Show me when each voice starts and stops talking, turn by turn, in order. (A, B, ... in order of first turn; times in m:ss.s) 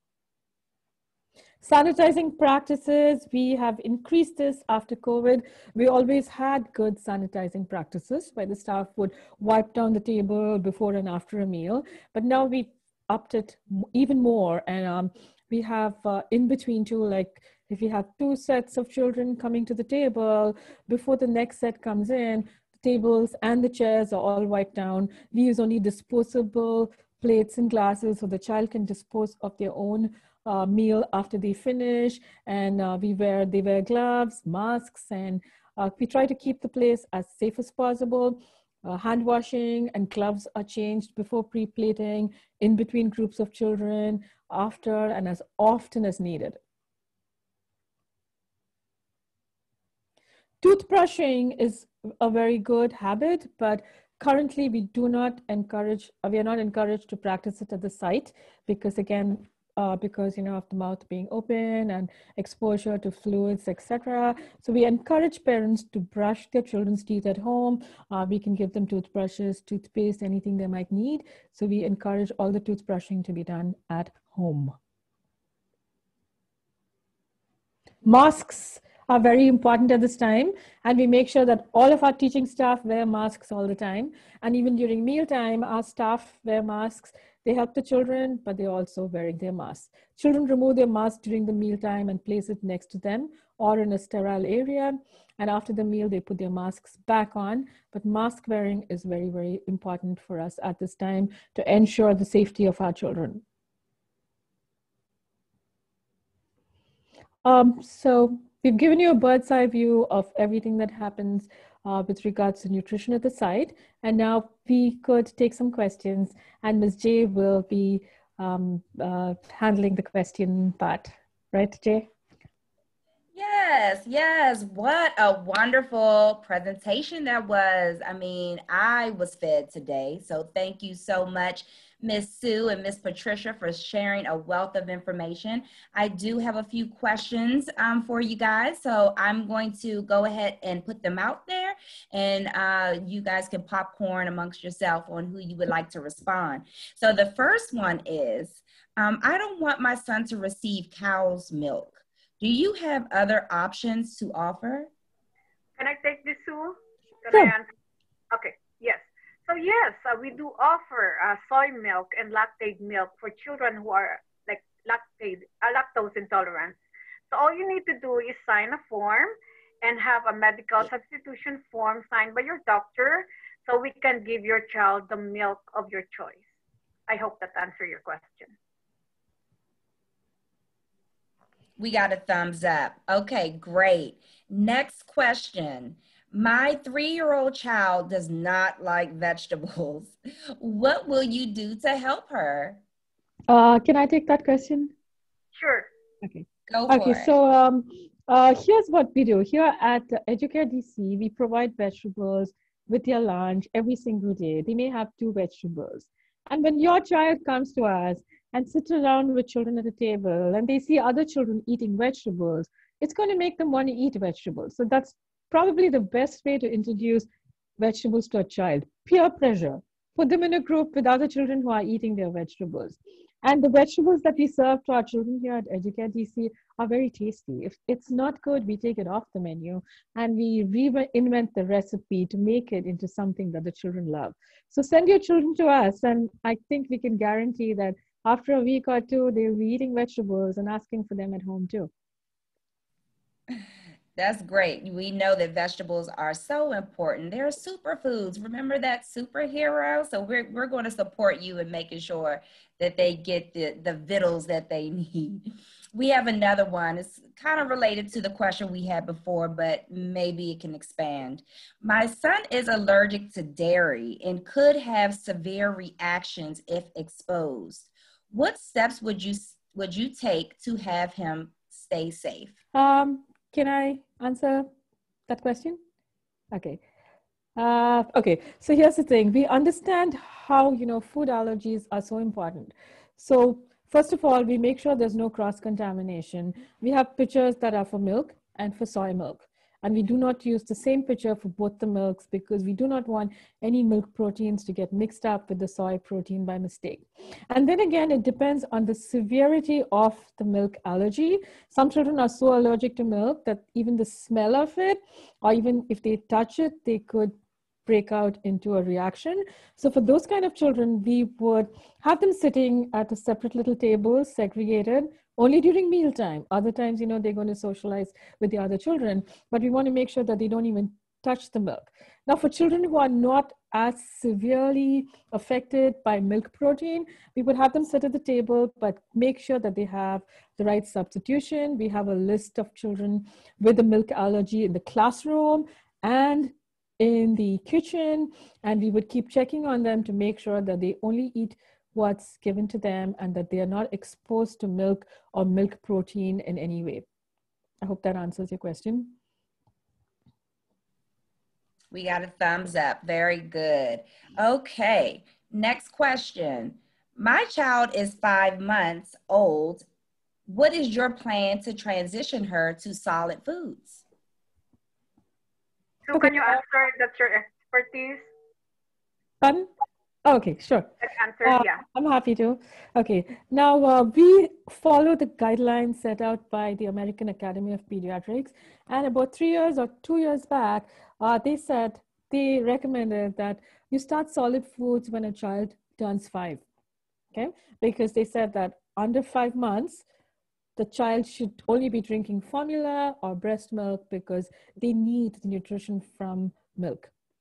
0:01.6-0:46.6 A
0:50.6-1:14.8 A
1:18.0-1:43.4 A
1:47.4-2:02.1 A
2:03.3-2:34.9 B
2:35.8-2:37.7 C
2:38.3-2:46.8 C
2:47.3-2:56.4 C
2:57.1-2:58.5 C
3:01.8-3:12.8 B
3:13.5-3:14.9 A
3:15.5-3:15.9 C
3:16.2-3:37.3 A
3:16.7-3:17.4 B
3:37.8-4:01.9 A
4:04.2-4:32.6 B
4:32.7-4:34.7 A
4:35.3-4:35.8 A
4:36.5-4:36.8 A
4:37.6-5:07.3 A
5:07.8-5:47.0 A
5:47.8-5:49.1 A
5:51.9-5:59.8 B
6:00.5-6:04.0 B
6:06.1-6:08.3 C
6:06.1-6:06.5 A
6:09.4-6:09.7 A
6:10.2-6:10.9 A
6:11.0-6:11.8 C
6:11.4-6:26.6 A
6:27.3-6:30.0 A
6:30.8-6:37.1 A